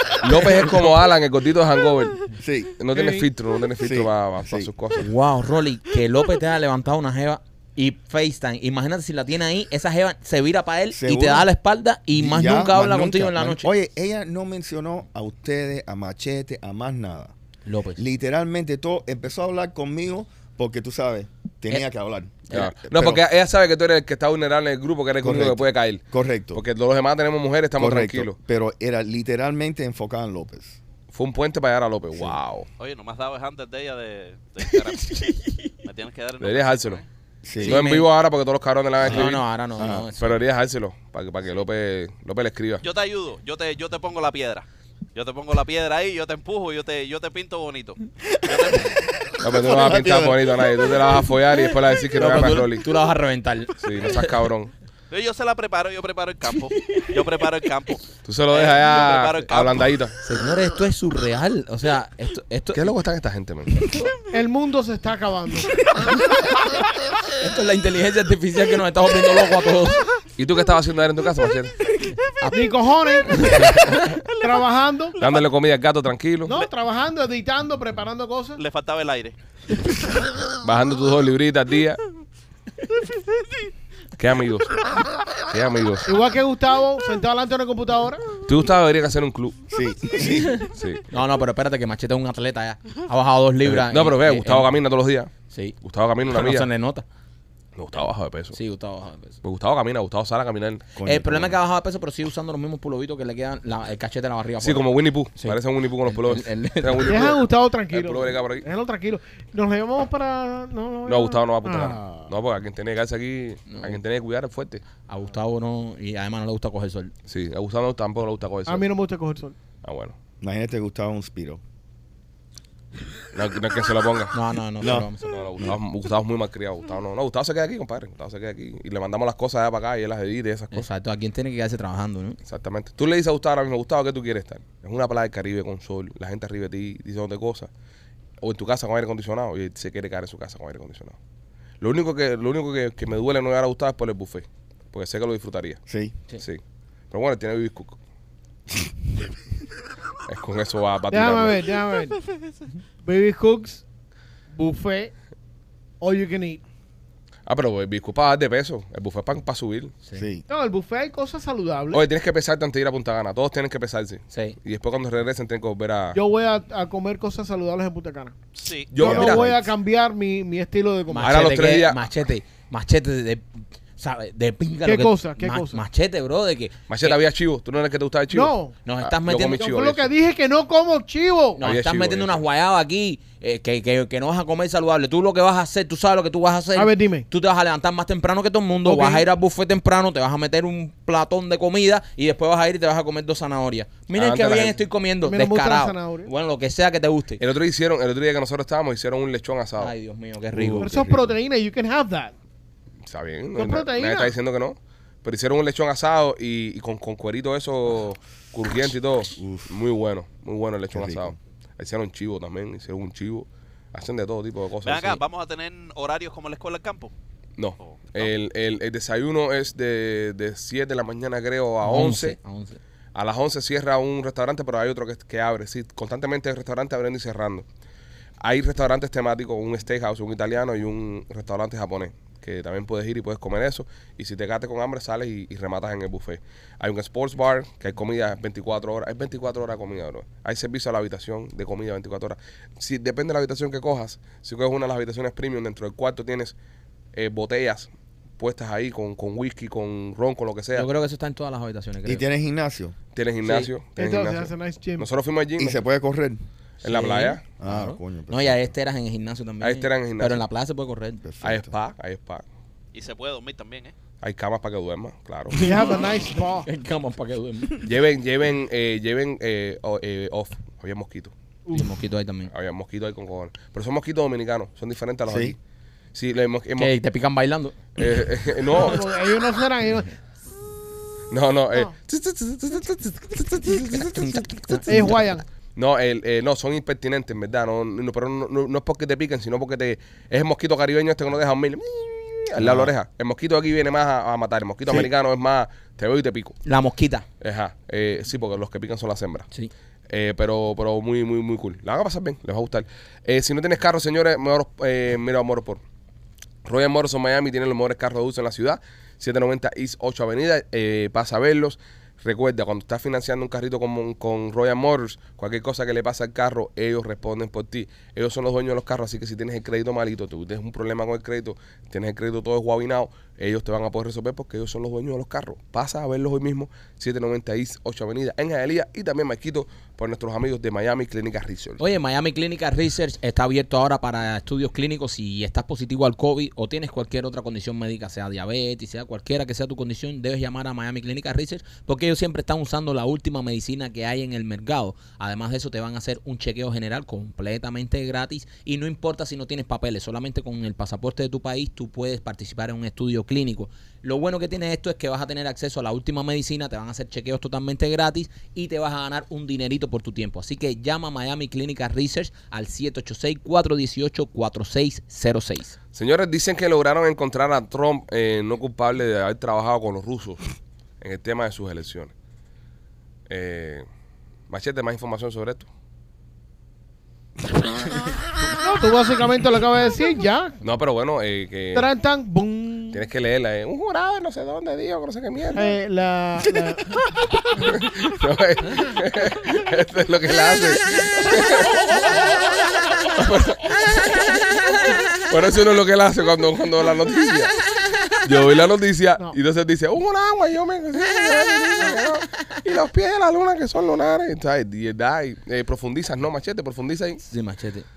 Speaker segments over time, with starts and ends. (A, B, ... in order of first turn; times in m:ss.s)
0:00.2-0:02.3 A
0:02.3-0:02.8 B
0:02.8-0:05.1 A
0:03.0-0:03.2 C
0:03.8-0:04.7 B
0:05.0-0:13.7 D
0:10.9-0:11.5 B
0:12.1-0:17.3 B
0:17.7-0:18.0 D
0:18.0-0:23.2 B
0:22.5-0:28.4 A
0:25.2-0:26.6 B
0:27.8-0:30.8 B
0:31.1-0:32.7 A
0:32.8-0:35.2 E
0:34.7-0:35.7 D
0:35.8-0:37.0 E
0:36.4-0:37.0 A
0:37.4-0:37.8 B
0:37.6-0:39.4 A
0:37.6-0:38.1 D
0:39.0-0:40.1 B
0:39.0-0:40.4 D
0:40.2-0:42.8 A
0:42.8-0:49.0 E
0:48.4-0:50.6 B
0:49.4-0:52.9 A
0:52.1-0:54.4 D
0:53.8-0:54.7 A
0:55.1-0:59.9 E
0:56.7-0:57.1 D
0:58.2-1:00.2 A
1:00.2-1:02.8 D
1:02.7-1:03.8 A
1:03.8-1:04.1 D
1:04.3-1:05.8 C
1:06.0-1:06.4 D
1:07.4-1:10.0 D
1:10.4-1:11.8 A
1:12.4-1:12.7 D
1:12.5-1:13.8 C
1:13.2-1:14.2 D
1:14.4-1:15.2 C
1:15.2-1:16.5 A
1:16.5-1:18.6 C
1:18.6-1:19.4 E
1:20.6-1:22.0 A
1:24.2-1:26.1 A
1:26.0-1:28.3 C
1:28.4-1:29.6 A
1:29.7-1:30.6 B
1:30.6-1:31.0 A
1:31.1-1:34.7 D
1:33.6-1:35.3 A
1:35.5-1:35.8 D
1:35.8-1:36.7 A
1:36.3-1:37.0 D
1:37.8-1:38.6 A
1:38.5-1:39.4 D
1:39.4-1:40.9 A
1:41.0-1:41.6 B
1:41.0-1:47.2 D
1:44.6-1:48.7 A
1:47.0-1:52.3 C
1:51.1-1:54.8 A
1:53.7-1:54.0 D
1:55.1-1:57.1 D
1:57.3-1:58.9 A
1:58.7-1:59.6 C
1:59.8-2:00.2 A
2:00.4-2:01.6 B
2:03.3-2:04.4 A
2:04.3-2:05.4 D
2:04.8-2:05.1 B
2:05.3-2:10.9 A
2:10.7-2:12.4 D
2:12.5-2:17.7 A
2:18.4-2:21.2 A
2:21.8-2:25.8 A
2:25.9-2:26.2 B
2:27.1-2:28.0 A
2:30.3-2:31.7 A
2:31.1-2:32.3 C
2:33.0-2:33.8 C
2:34.5-2:35.1 C
2:36.0-2:36.6 C
2:37.5-2:39.9 A
2:40.2-2:40.4 B
2:40.5-2:42.0 C
2:41.9-2:46.2 A
2:44.3-2:44.6 D
2:46.1-2:48.4 C
2:48.6-2:48.9 E
2:48.9-2:49.5 A
2:49.0-2:51.4 C
2:49.0-2:49.7 B
2:51.1-2:53.4 D
2:51.2-2:52.0 A
2:54.0-2:57.2 D
2:54.8-2:55.8 C
2:56.9-3:00.1 A
2:58.3-2:58.8 C
2:58.8-2:59.7 D
2:59.6-3:01.6 C
3:01.6-3:17.4 D
3:01.6-3:02.4 A
3:06.7-3:07.3 C
3:08.8-3:09.3 C
3:14.1-3:14.8 A
3:15.2-3:16.3 C
3:17.4-3:19.9 A
3:19.8-3:20.9 D
3:20.5-3:21.4 B
3:20.8-3:22.3 C
3:23.1-3:35.2 A
3:23.6-3:24.3 C
3:29.4-3:29.7 B
3:30.9-3:31.4 B
3:34.8-3:37.1 E
3:37.6-3:42.4 A
3:37.8-3:38.3 E
3:41.8-3:42.8 D
3:43.2-3:47.6 A
3:48.4-4:06.5 A
4:07.1-4:10.9 A
4:10.8-4:12.2 D
4:12.0-4:13.0 B
4:13.1-4:15.8 A
4:13.4-4:13.7 D
4:14.0-4:15.1 C
4:15.6-4:16.4 B
4:16.8-4:21.2 D
4:16.8-4:17.4 A
4:17.6-4:18.6 B
4:19.6-4:20.4 A
4:21.2-4:21.7 B
4:21.4-4:22.4 A
4:22.9-4:23.9 E
4:24.2-4:25.6 A
4:25.5-4:27.9 D
4:25.6-4:26.7 C
4:27.8-4:31.3 A
4:31.7-4:31.9 C
4:31.7-4:32.5 D
4:32.5-4:35.6 A
4:35.3-4:35.6 B
4:36.1-4:36.9 A
4:36.8-4:38.0 D
4:38.0-4:39.1 A
4:38.7-4:40.1 C
4:41.3-4:45.0 A
4:43.9-4:45.3 D
4:44.9-4:45.4 C
4:45.8-4:56.6 A
4:52.6-4:52.9 D
4:56.6-4:57.2 D
4:57.4-4:59.5 A
5:00.1-5:05.8 A
5:06.6-5:31.8 A
5:31.8-6:05.8 D
6:05.9-6:10.5 A
6:11.0-6:12.1 A
6:13.3-6:13.8 A
6:14.5-6:15.7 A
6:18.5-6:20.6 C
6:20.6-6:21.9 A
6:21.7-6:23.0 C
6:22.9-6:25.7 A
6:25.5-6:26.9 C
6:27.6-6:32.3 A
6:33.2-6:37.6 A
6:38.2-6:47.2 A
6:47.3-6:47.9 D